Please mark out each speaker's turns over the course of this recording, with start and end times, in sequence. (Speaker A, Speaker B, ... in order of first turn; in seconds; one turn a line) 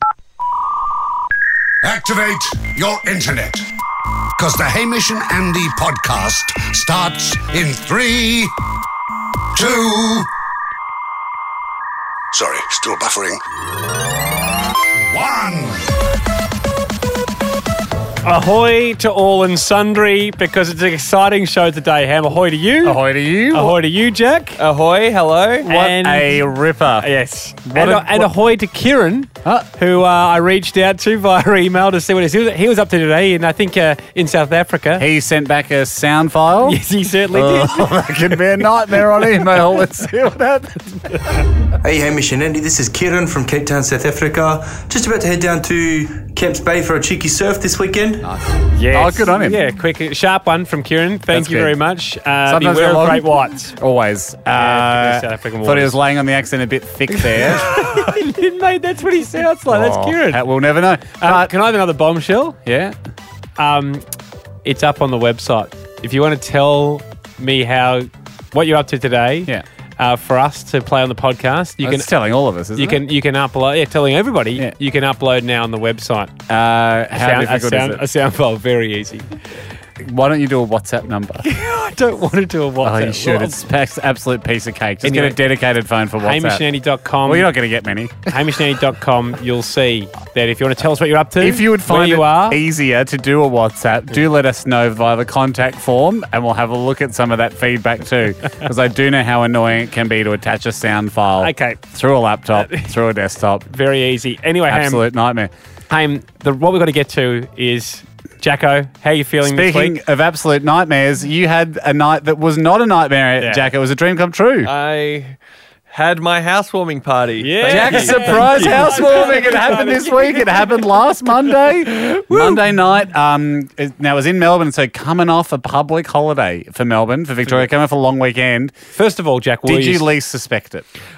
Speaker A: 1.8-3.7
Speaker A: 4.4-8.6
Speaker A: 9.6-10.3
Speaker A: 12.3-13.4
Speaker A: 15.1-15.9
Speaker B: 18.2-24.6
Speaker C: 22.8-23.8
Speaker D: 24.6-25.7
Speaker B: 25.7-26.4
Speaker C: 25.7-27.1
Speaker B: 27.0-35.1
Speaker C: 27.6-28.3
Speaker C: 35.0-41.3
Speaker B: 36.6-39.8
Speaker E: 41.8-48.3
Speaker C: 48.2-49.6
Speaker B: 48.7-53.8
Speaker C: 51.3-51.8
Speaker C: 52.5-57.8
Speaker B: 54.5-56.0
Speaker B: 57.1-60.4
Speaker C: 59.7-61.6
Speaker B: 61.2-62.6
Speaker C: 62.6-63.0
Speaker B: 63.6-64.1
Speaker B: 64.6-72.1
Speaker C: 71.8-73.0
Speaker B: 72.8-76.3
Speaker C: 76.5-78.0
Speaker B: 77.2-79.4
Speaker C: 80.0-81.5
Speaker B: 81.4-83.6
Speaker C: 82.8-86.7
Speaker B: 85.0-85.4
Speaker B: 86.2-87.5
Speaker C: 87.2-88.4
Speaker B: 88.3-92.6
Speaker C: 91.4-103.7
Speaker B: 101.4-101.8
Speaker B: 102.5-102.9
Speaker B: 103.7-105.1
Speaker C: 104.7-105.5
Speaker B: 105.9-110.0
Speaker C: 109.4-114.7
Speaker B: 113.4-113.7
Speaker D: 114.6-115.4
Speaker D: 115.9-119.6
Speaker B: 117.4-120.7
Speaker C: 117.6-128.7
Speaker B: 121.9-122.6
Speaker B: 128.9-130.1
Speaker C: 129.7-130.9